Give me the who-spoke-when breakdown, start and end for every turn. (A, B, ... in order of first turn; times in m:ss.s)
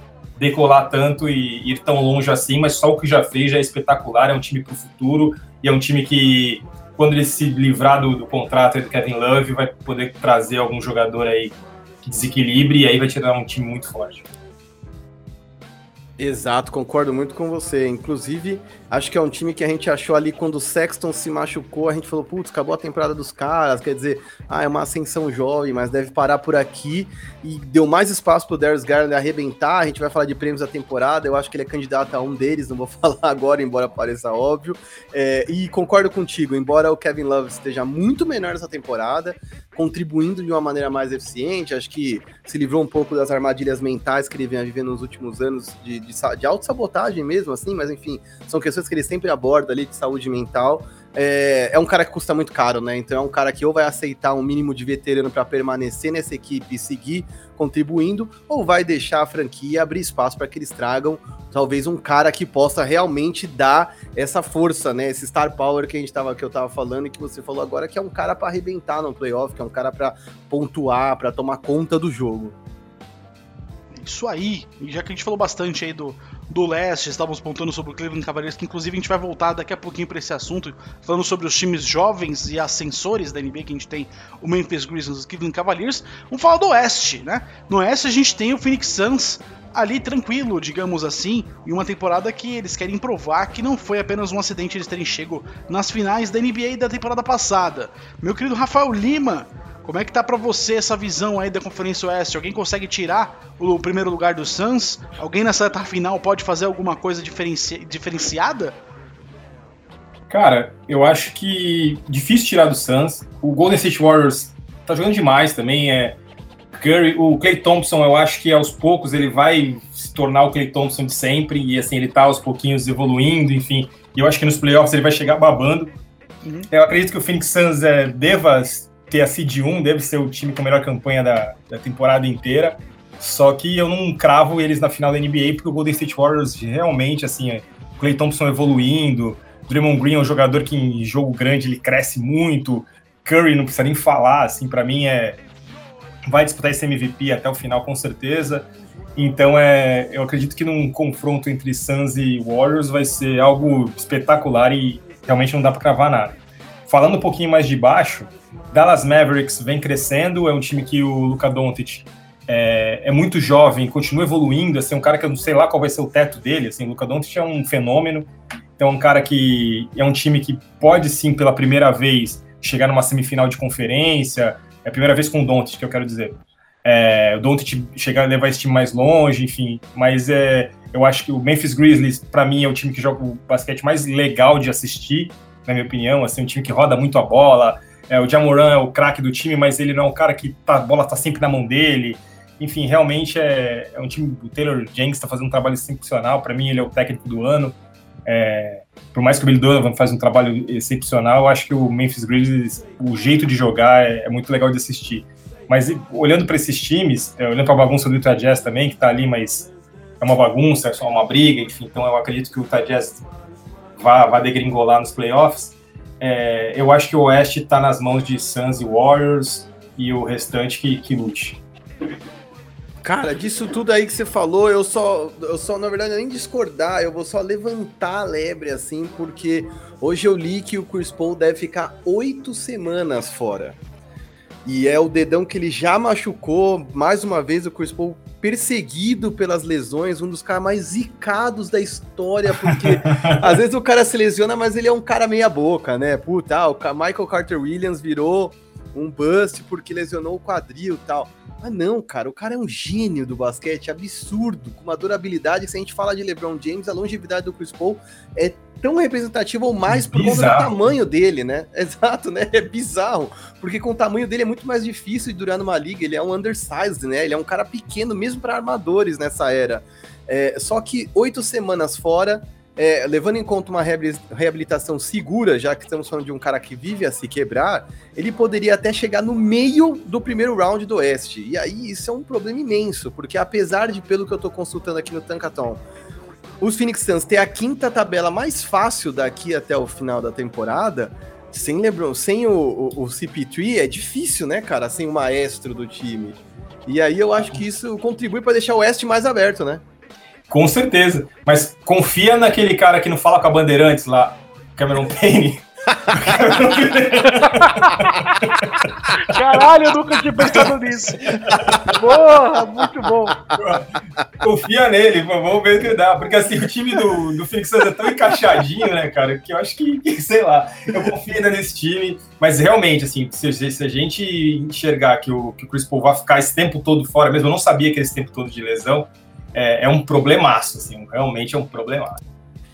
0:00.4-0:14.3 A
0:16.2-1:12.6 B
1:13.9-1:48.8 C
1:50.3-1:56.2 A
1:56.8-2:05.9 A
2:06.4-2:06.7 C
2:06.7-2:25.4 A
2:26.3-2:36.4 A
2:36.9-3:33.3 A
3:34.0-3:41.6 A
3:43.0-3:53.8 B
3:54.6-4:45.8 B
4:02.7-4:03.5 A
4:19.9-4:20.8 A
4:46.6-4:59.8 B
5:00.5-5:09.0 A
5:07.3-5:08.6 C
5:09.1-5:13.4 C
5:11.3-5:11.8 A
5:11.5-5:11.9 B
5:13.6-5:13.9 A
5:14.4-5:32.2 A